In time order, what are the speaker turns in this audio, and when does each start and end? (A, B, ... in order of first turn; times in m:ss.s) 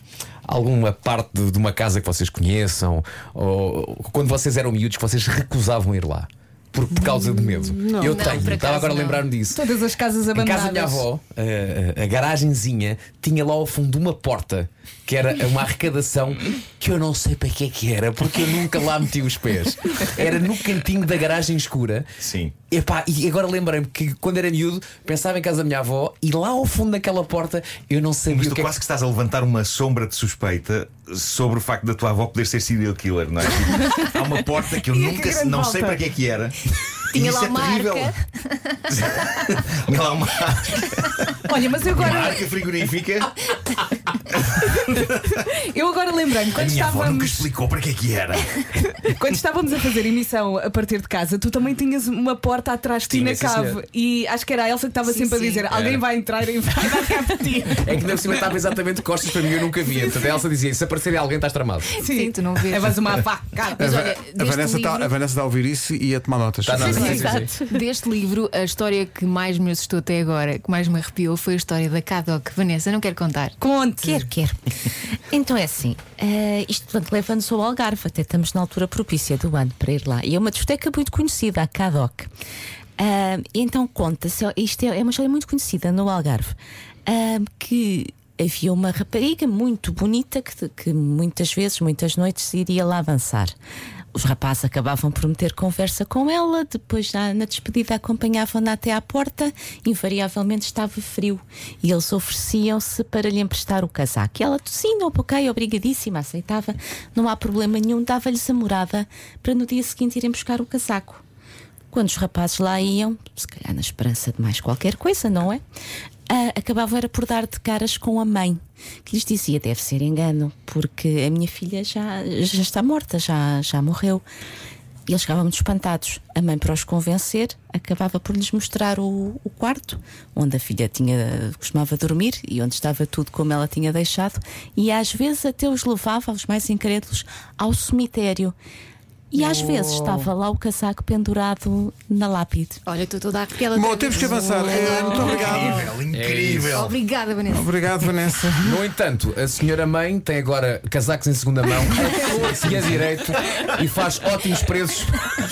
0:00.4-0:09.6 A
0:07.8-0:09.3 B
0:09.5-0:11.1 C
0:10.3-0:22.1 A
0:22.2-0:22.5 D
0:22.7-0:28.7 A
0:28.3-0:36.6 D
0:34.8-0:36.0 C
0:37.1-0:38.9 B
0:37.1-0:38.1 D
0:38.9-0:43.3 D
0:41.5-0:42.5 C
0:45.5-0:47.5 C
0:46.5-0:48.5 D
0:49.0-0:58.4 C
0:53.1-0:53.8 A
0:55.0-0:55.7 B
0:55.7-0:56.0 A
0:57.8-1:02.0 A
0:59.9-1:00.2 C
1:02.0-1:03.2 B
1:02.0-1:03.8 C
1:03.7-1:05.1 B
1:03.8-1:07.3 E
1:06.6-1:07.5 A
1:06.8-1:13.6 B
1:06.9-1:07.8 F
1:07.0-1:07.3 C
1:13.6-1:14.6 F
1:15.3-1:22.3 F
1:23.0-1:26.6 F
1:27.1-1:33.5 F
1:34.1-1:51.2 F
1:51.9-1:55.6 F
1:56.3-2:04.2 F
2:05.1-2:18.6 F
2:19.3-2:22.8 F
2:19.4-2:20.3 E
2:22.9-2:25.8 B
2:23.7-2:25.9 E
2:25.3-2:26.9 D
2:26.1-2:26.9 A
2:26.7-2:27.7 B
2:27.5-2:28.8 E
2:28.6-2:35.2 A
2:32.2-2:32.9 E